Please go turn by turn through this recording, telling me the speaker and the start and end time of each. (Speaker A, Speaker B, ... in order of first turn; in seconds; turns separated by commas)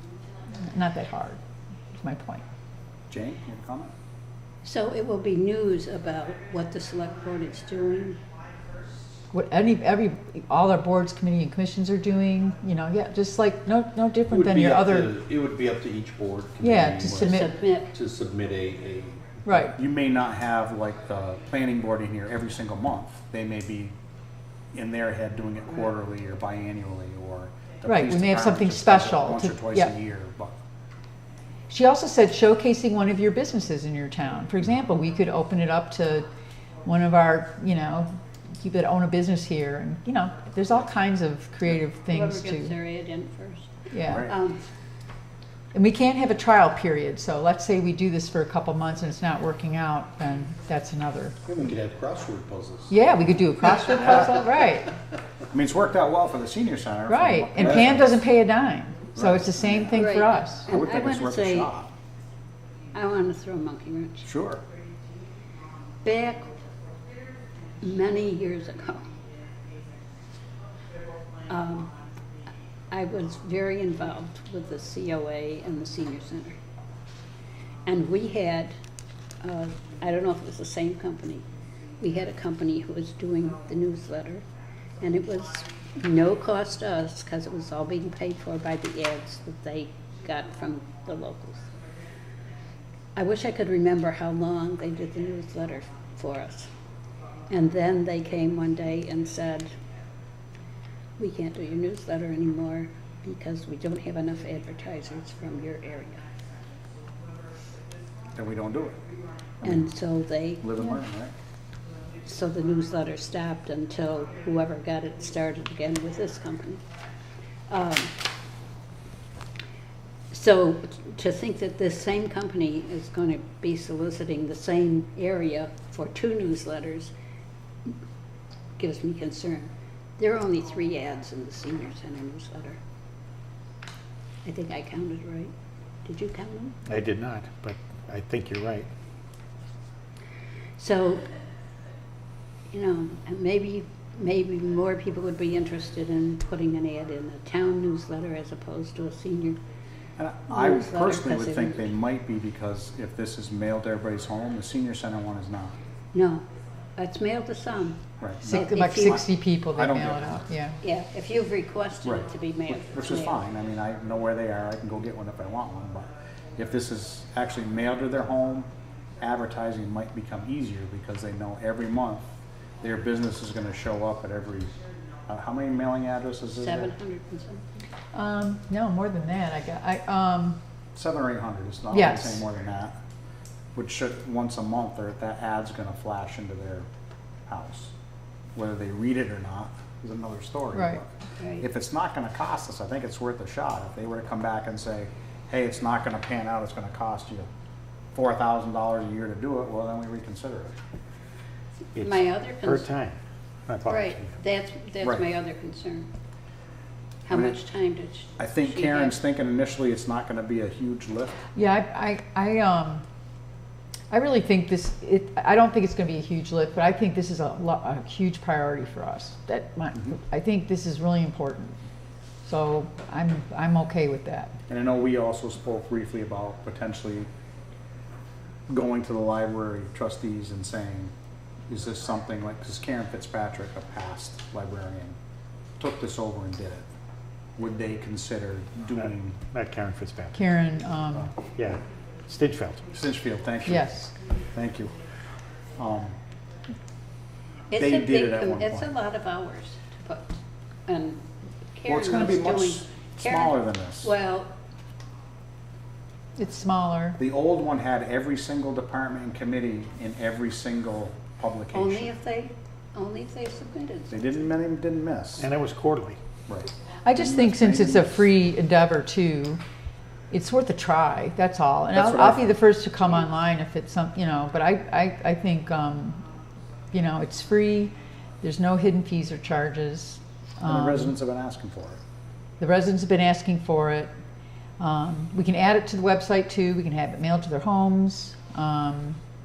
Speaker A: 0.6-1.4, Speaker A: 1.9-2.4, Speaker B: 3.1-3.9, Speaker C: 4.6-8.2, Speaker A: 9.3-15.1, Speaker D: 14.3-19.3, Speaker A: 16.6-17.5, Speaker C: 17.1-17.9, Speaker A: 19.4-19.8, Speaker B: 19.8-23.9, Speaker B: 24.7-30.6, Speaker A: 27.9-29.9, Speaker A: 31.7-36.3, Speaker A: 36.8-42.8, Speaker C: 42.1-44.6, Speaker A: 43.9-44.3, Speaker B: 44.0-44.3, Speaker A: 45.7-51.4, Speaker D: 51.5-52.9, Speaker A: 52.9-54.9, Speaker B: 55.5-58.2, Speaker A: 57.1-60.7, Speaker B: 59.1-61.9, Speaker C: 59.9-61.7, Speaker C: 62.9-64.3, Speaker B: 64.2-64.6, Speaker C: 66.0-66.5, Speaker C: 67.8-69.0, Speaker C: 71.5-71.9, Speaker C: 72.9-76.6, Speaker C: 77.9-78.7, Speaker C: 79.4-81.5, Speaker C: 82.0-84.5, Speaker C: 85.0-91.7, Speaker C: 93.2-96.7, Speaker C: 97.5-99.7, Speaker C: 101.2-106.2, Speaker B: 108.3-109.0, Speaker C: 109.6-110.7, Speaker B: 110.6-111.3, Speaker C: 112.2-116.8, Speaker C: 117.7-118.2, Speaker C: 120.3-127.1, Speaker C: 128.8-132.8, Speaker C: 134.4-135.5, Speaker C: 136.1-136.8, Speaker E: 136.9-138.9, Speaker C: 140.8-141.2, Speaker C: 142.7-149.6, Speaker B: 150.2-155.7, Speaker C: 150.5-151.9, Speaker C: 156.1-156.5, Speaker C: 157.0-159.2, Speaker B: 158.2-160.4, Speaker A: 158.4-160.8, Speaker C: 160.8-163.4, Speaker B: 162.0-168.7, Speaker B: 169.2-172.3, Speaker B: 172.8-174.7, Speaker B: 175.3-176.9, Speaker C: 176.6-177.6, Speaker A: 178.1-180.6, Speaker B: 180.9-182.9, Speaker A: 181.9-182.4, Speaker B: 183.8-186.9, Speaker B: 187.5-187.9, Speaker B: 188.6-197.5, Speaker C: 191.4-191.6, Speaker B: 198.1-200.8, Speaker E: 201.9-204.3, Speaker C: 202.0-202.9, Speaker C: 203.9-206.1, Speaker C: 207.3-209.2, Speaker B: 207.3-207.6, Speaker B: 208.4-211.4, Speaker A: 211.5-213.0, Speaker A: 214.1-221.8, Speaker A: 222.4-224.6, Speaker B: 224.7-227.3, Speaker B: 228.7-231.1, Speaker B: 231.7-235.2, Speaker B: 235.8-236.8, Speaker B: 237.6-239.4, Speaker E: 239.4-240.4, Speaker A: 240.3-241.3, Speaker E: 241.5-242.9, Speaker B: 242.9-243.9, Speaker A: 243.7-244.1, Speaker B: 244.5-244.9, Speaker B: 245.8-246.2, Speaker C: 247.7-250.4, Speaker B: 247.8-248.9, Speaker C: 250.9-254.5, Speaker B: 251.9-254.1, Speaker A: 256.4-257.2, Speaker B: 257.2-262.1, Speaker C: 261.7-264.2, Speaker B: 264.1-265.5, Speaker E: 265.4-266.2, Speaker B: 266.5-268.2, Speaker A: 267.0-269.6, Speaker A: 270.3-276.2, Speaker B: 271.9-272.6, Speaker A: 276.9-281.1, Speaker B: 280.6-282.0, Speaker A: 282.6-284.1, Speaker A: 284.8-289.2